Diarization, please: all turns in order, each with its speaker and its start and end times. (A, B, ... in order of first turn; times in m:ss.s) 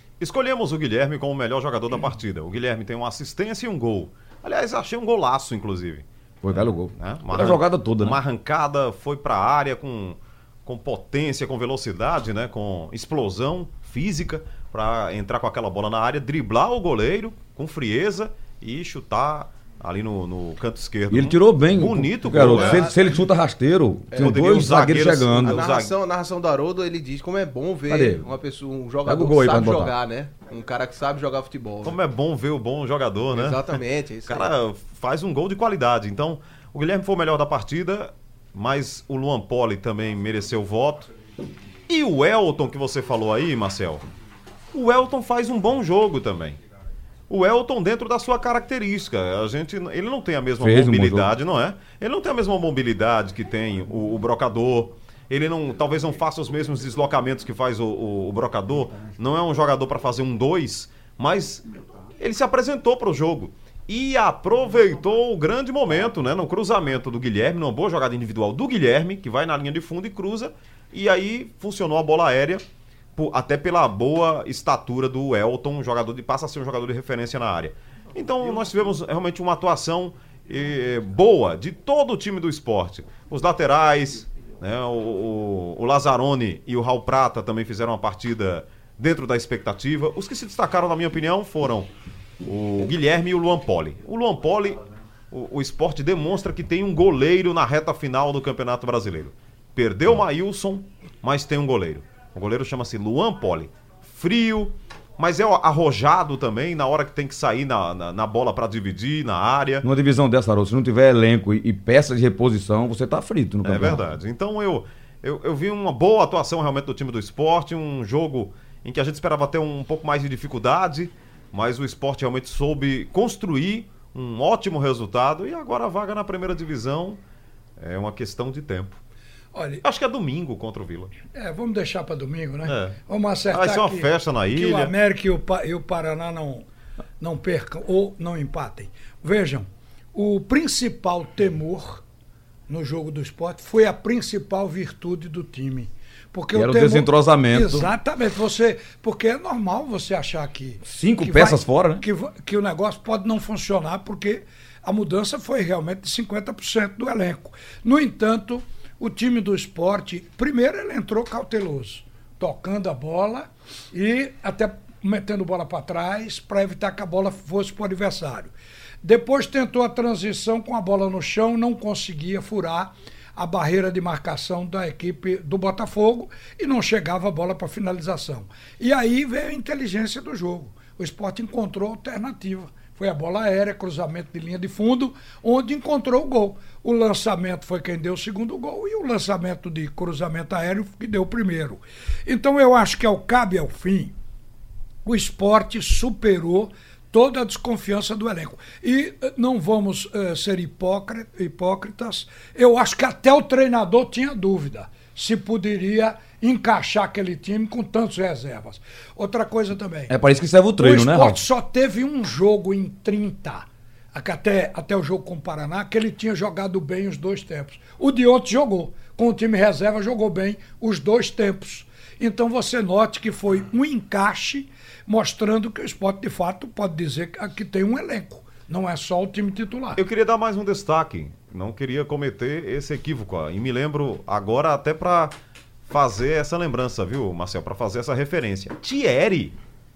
0:00.2-0:22.9 A
0:06.4-0:08.2 B
0:21.1-0:25.6 B
0:22.4-0:22.9 C
0:24.1-0:24.6 C
0:24.1-0:25.9 A
0:25.4-0:32.0 C
0:27.9-0:28.2 B
0:29.0-0:29.9 B
0:31.8-0:41.1 A
0:33.3-0:34.5 C
0:41.9-0:44.0 A
0:44.7-0:46.6 A
0:47.3-1:01.6 A
0:50.6-0:51.3 B
1:02.2-1:12.6 A
1:13.2-1:31.9 A
1:32.4-1:34.8 A
1:35.3-1:49.8 A
1:49.8-1:54.0 B
1:53.6-2:07.2 A
2:07.8-2:09.0 A
2:09.5-2:09.8 D
2:09.8-2:11.1 A
2:11.3-2:16.6 D
2:12.6-2:13.0 A
2:13.5-2:14.9 A
2:17.2-2:22.0 D
2:22.7-2:48.5 D
2:26.5-2:27.9 B
2:30.8-2:32.0 B
2:49.0-3:14.1 D
3:15.0-3:30.1 D
3:30.1-3:31.4 B
3:30.8-3:50.0 D
3:50.0-3:55.3 A
3:55.9-3:59.5 A